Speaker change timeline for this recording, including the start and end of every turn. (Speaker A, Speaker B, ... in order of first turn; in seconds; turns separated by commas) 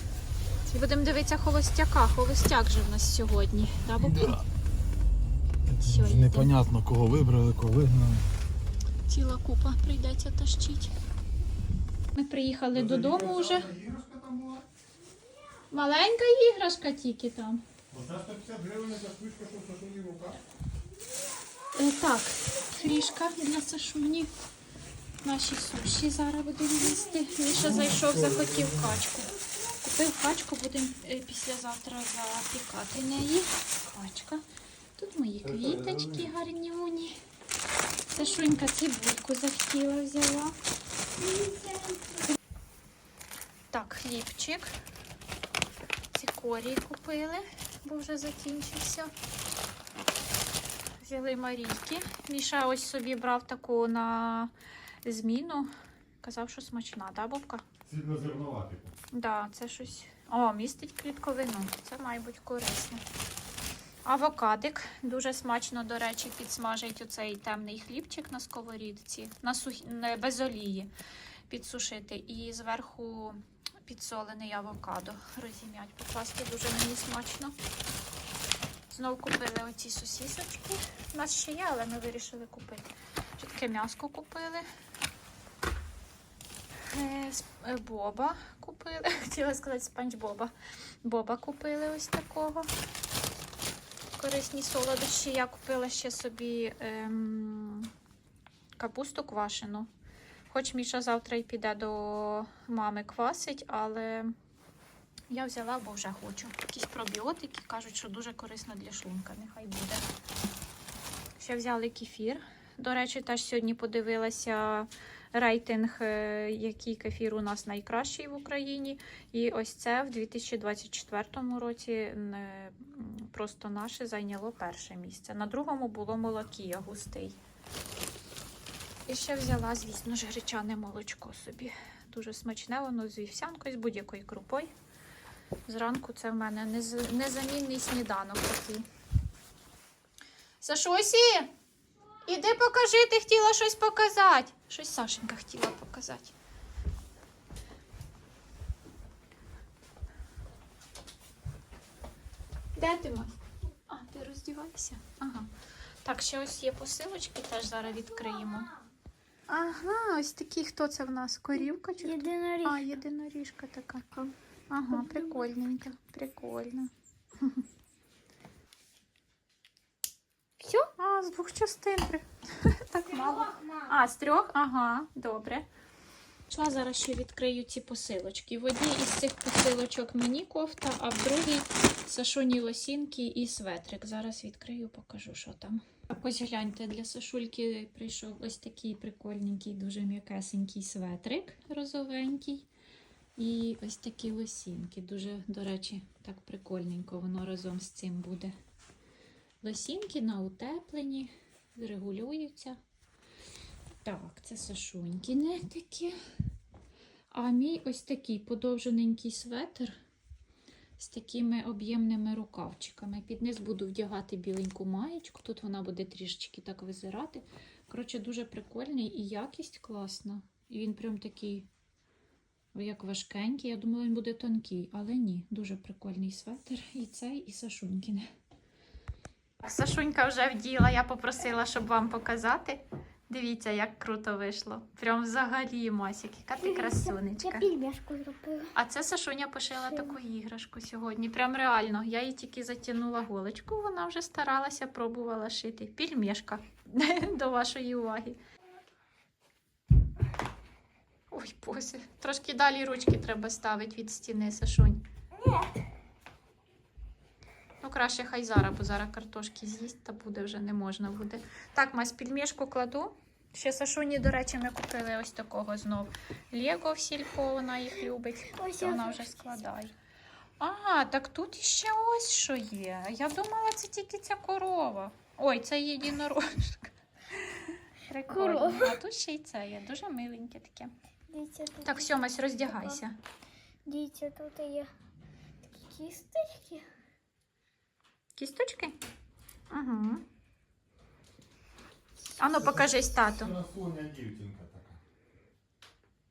Speaker A: 0.7-4.4, Speaker B: 4.0-4.4, Speaker B: 5.7-8.2, Speaker A: 5.8-6.6, Speaker A: 9.1-10.9, Speaker A: 12.1-13.7, Speaker B: 12.7-14.6, Speaker A: 15.7-17.6, Speaker B: 17.9-20.4, Speaker A: 21.8-24.3, Speaker C: 22.8-23.0, Speaker A: 25.2-29.3, Speaker C: 27.1-27.8, Speaker B: 27.6-28.9, Speaker A: 29.8-34.4, Speaker A: 35.0-37.2, Speaker B: 35.4-36.3, Speaker A: 38.1-40.5, Speaker C: 38.1-38.4, Speaker C: 41.1-42.3, Speaker A: 43.7-44.7, Speaker A: 46.1-49.1, Speaker A: 51.0-54.5, Speaker A: 55.0-55.7, Speaker A: 56.2-57.6, Speaker B: 57.8-58.9, Speaker A: 59.1-63.0, Speaker A: 64.0-70.9, Speaker A: 71.5-77.5, Speaker A: 78.9-84.6, Speaker A: 86.9-90.5, Speaker A: 91.0-92.7, Speaker A: 94.2-97.9, Speaker A: 98.8-99.9, Speaker A: 100.5-104.3, Speaker A: 105.3-110.0, Speaker A: 111.4-127.4, Speaker A: 129.1-134.7, Speaker A: 135.7-138.8, Speaker A: 140.6-141.5, Speaker A: 142.2-146.3, Speaker A: 152.7-153.3, Speaker A: 153.9-155.5, Speaker A: 156.0-158.7, Speaker C: 157.8-158.9, Speaker A: 159.5-164.0, Speaker C: 161.5-162.9, Speaker A: 164.7-166.9, Speaker C: 164.9-165.5, Speaker C: 170.6-170.9, Speaker A: 171.0-172.2, Speaker A: 172.8-175.7, Speaker C: 173.0-174.0, Speaker A: 176.5-192.7, Speaker A: 193.4-198.5, Speaker A: 199.6-202.8, Speaker A: 204.0-206.2, Speaker A: 207.3-209.9, Speaker A: 211.0-221.7, Speaker A: 222.7-228.2, Speaker A: 229.6-237.7, Speaker C: 236.6-238.7, Speaker A: 238.7-248.4, Speaker C: 239.8-240.2, Speaker A: 251.3-255.0, Speaker C: 255.4-255.7, Speaker A: 257.8-269.9, Speaker C: 268.5-269.8, Speaker A: 270.6-280.9, Speaker C: 278.2-279.0, Speaker C: 281.3-283.0, Speaker A: 281.8-283.2, Speaker C: 283.9-284.9, Speaker C: 285.6-286.9, Speaker A: 288.4-289.0, Speaker A: 289.7-290.2, Speaker C: 292.4-292.7, Speaker A: 292.4-293.6, Speaker B: 292.6-295.0